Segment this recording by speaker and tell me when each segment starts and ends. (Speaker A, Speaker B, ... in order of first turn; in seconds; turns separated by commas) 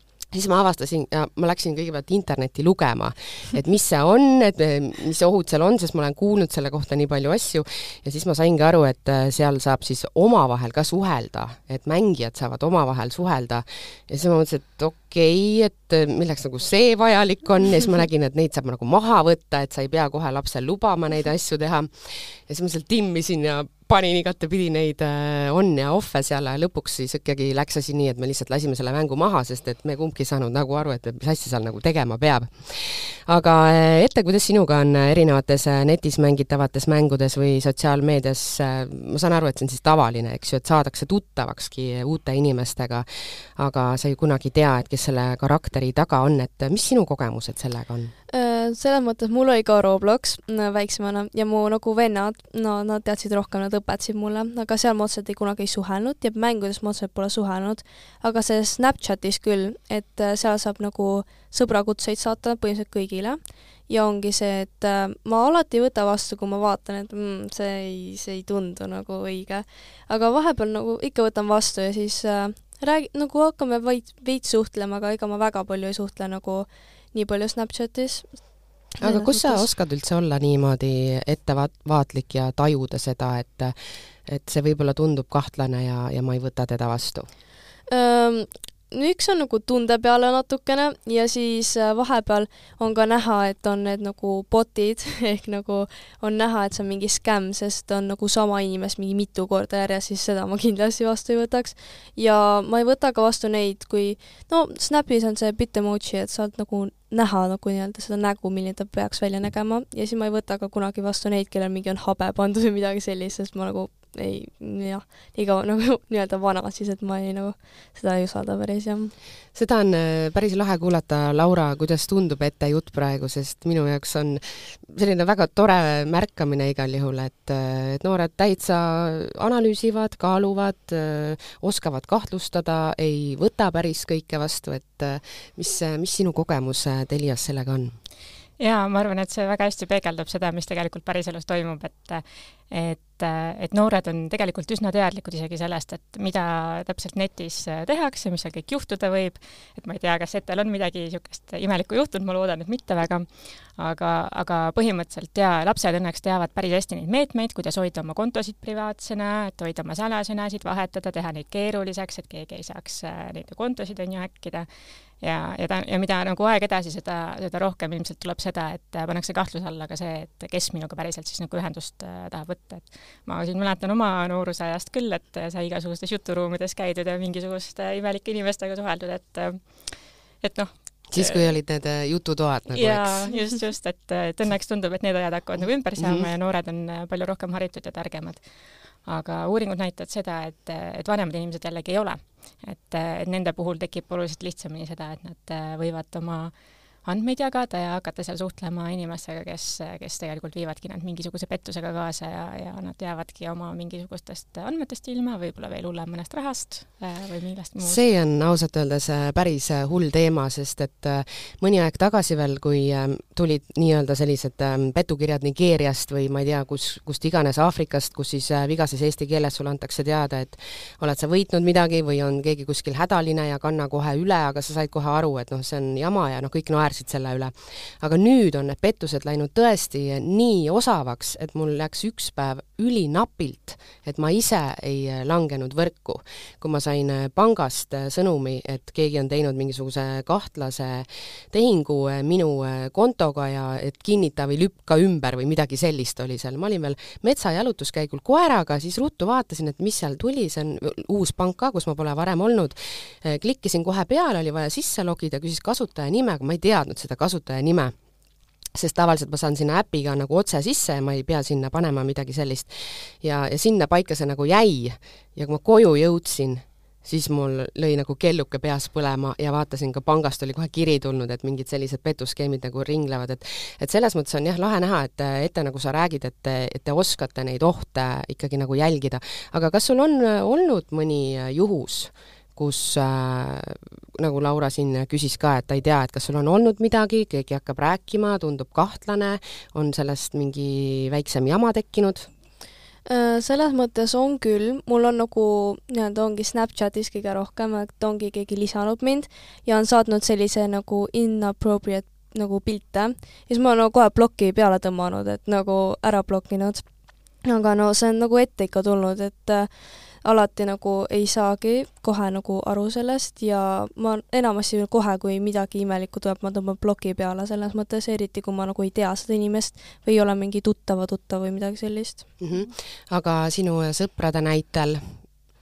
Speaker A: 0.3-48.1, Speaker B: 48.3-79.7, Speaker A: 79.0-87.3, Speaker B: 87.9-119.1, Speaker A: 119.5-137.9, Speaker C: 138.6-164.7, Speaker C: 165.2-181.5, Speaker A: 181.1-183.3, Speaker C: 182.7-188.5, Speaker A: 186.0-186.2, Speaker C: 189.0-208.0, Speaker A: 207.8-257.9, Speaker A: 258.7-292.3, Speaker B: 293.1-306.9, Speaker B: 307.4-309.7, Speaker B: 310.2-322.3, Speaker A: 322.4-325.2